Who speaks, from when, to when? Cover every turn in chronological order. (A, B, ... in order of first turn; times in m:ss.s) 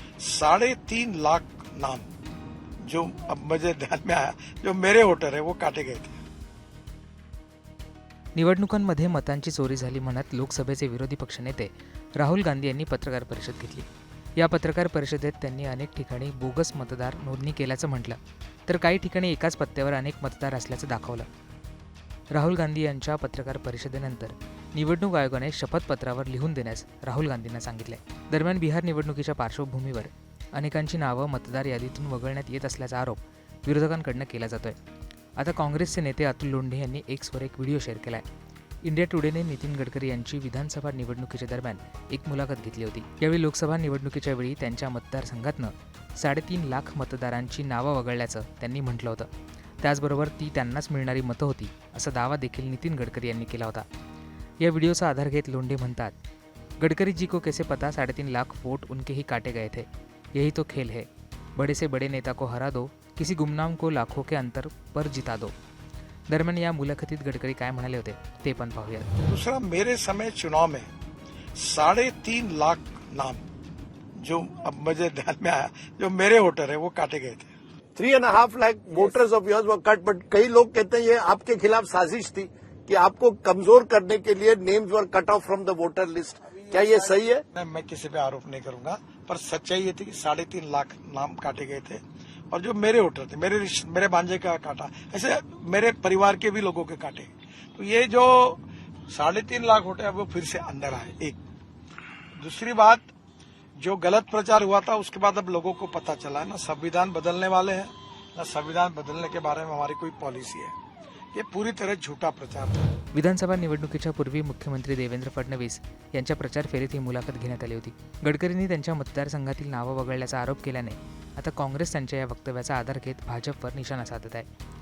0:00.2-0:02.1 A
0:02.8-0:06.2 A
0:08.4-0:21.3 B
0:22.3-0:34.8 B
0:35.4-0:38.2 B
0:38.8-0:49.3 B
0:49.8-0:53.9 B
0:54.6-0:56.2 B
0:56.8-1:05.5 B
1:06.3-1:09.1 B
1:09.2-1:10.9 A
1:11.6-1:13.4 A
1:14.2-1:17.5 A
1:18.0-1:27.4 C
1:26.7-1:41.4 A
1:42.4-1:43.1 A
1:43.8-1:50.7 A
1:51.3-1:52.9 A
1:53.1-2:04.5 B